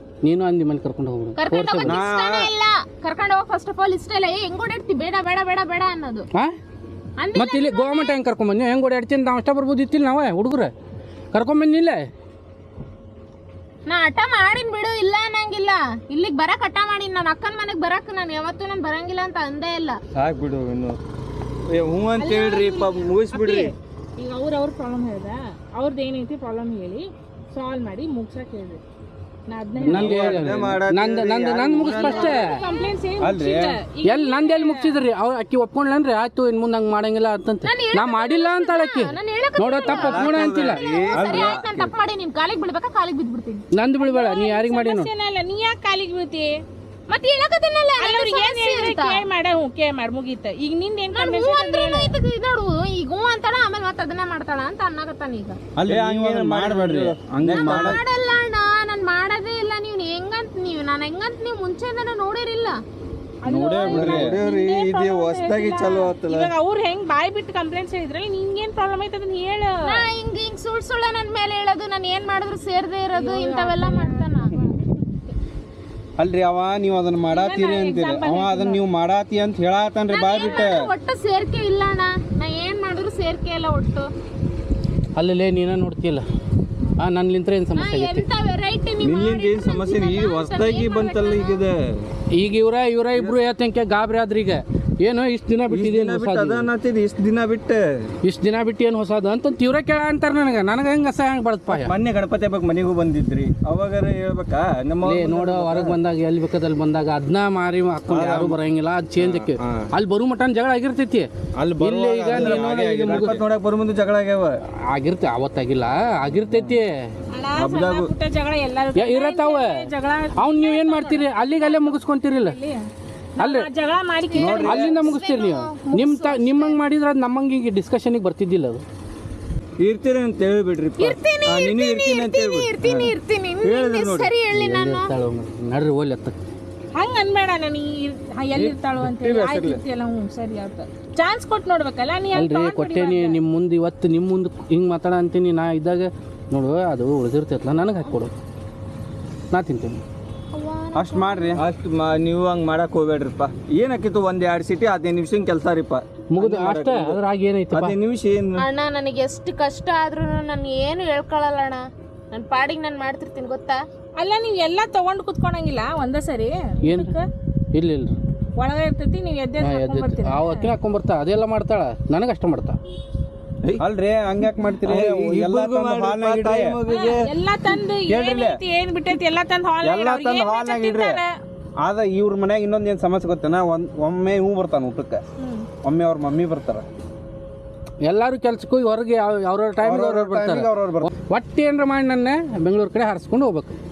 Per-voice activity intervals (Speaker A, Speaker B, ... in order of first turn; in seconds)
Speaker A: 0.2-2.0, 7.3-10.7, 11.3-12.1, 29.8-32.6, 34.0-40.8, 43.7-45.1, 85.2-86.2, 87.0-88.2, 92.3-96.7, 98.2-101.9, 105.0-111.3, 111.8-113.3, 114.9-117.1, 118.9-122.6, 123.4-123.7, 124.6-128.8, 134.5-136.4, 142.3-148.3, 149.5-150.0, 156.3-158.0, 166.8-167.1, 167.7-168.2, 169.6-172.8, 188.1-190.7, 191.2-193.8
Speaker B: 1.4-6.3, 7.2-8.2, 13.8-20.0, 31.8-32.9, 37.6-43.6, 47.1-49.2, 51.1-55.6, 57.5-62.8, 69.8-74.5, 80.1-84.1, 87.8-91.6, 124.3-126.8, 131.0-135.1, 150.5-151.6, 158.6-163.8
Speaker C: 1.8-2.5, 33.2-33.8, 41.1-41.6, 55.8-58.0, 63.4-64.4, 76.2-80.9, 108.1-108.6, 109.2-109.9, 111.6-113.4, 150.9-151.6, 173.8-176.8, 179.8-181.2, 181.8-185.2, 185.8-186.8, 189.8-191.1
Speaker D: 20.1-21.0, 21.7-23.7, 29.8-32.1, 39.8-41.9, 55.9-58.0, 63.8-66.5, 89.0-91.8, 95.7-97.8, 101.7-105.9, 112.3-114.6, 117.6-118.1, 124.3-125.1, 129.8-134.3, 138.5-139.8, 151.6-157.2, 157.7-158.6, 174.8-177.2, 178.1-178.6
Speaker E: 22.2-28.8, 29.5-30.2, 31.9-35.0, 44.0-46.6, 48.0-52.1, 63.4-70.0, 73.1-74.8, 77.3-78.8, 117.3-122.8, 123.4-124.6, 136.9-143.4, 164.2-167.3, 168.6-170.7, 176.9-181.3, 185.4-185.7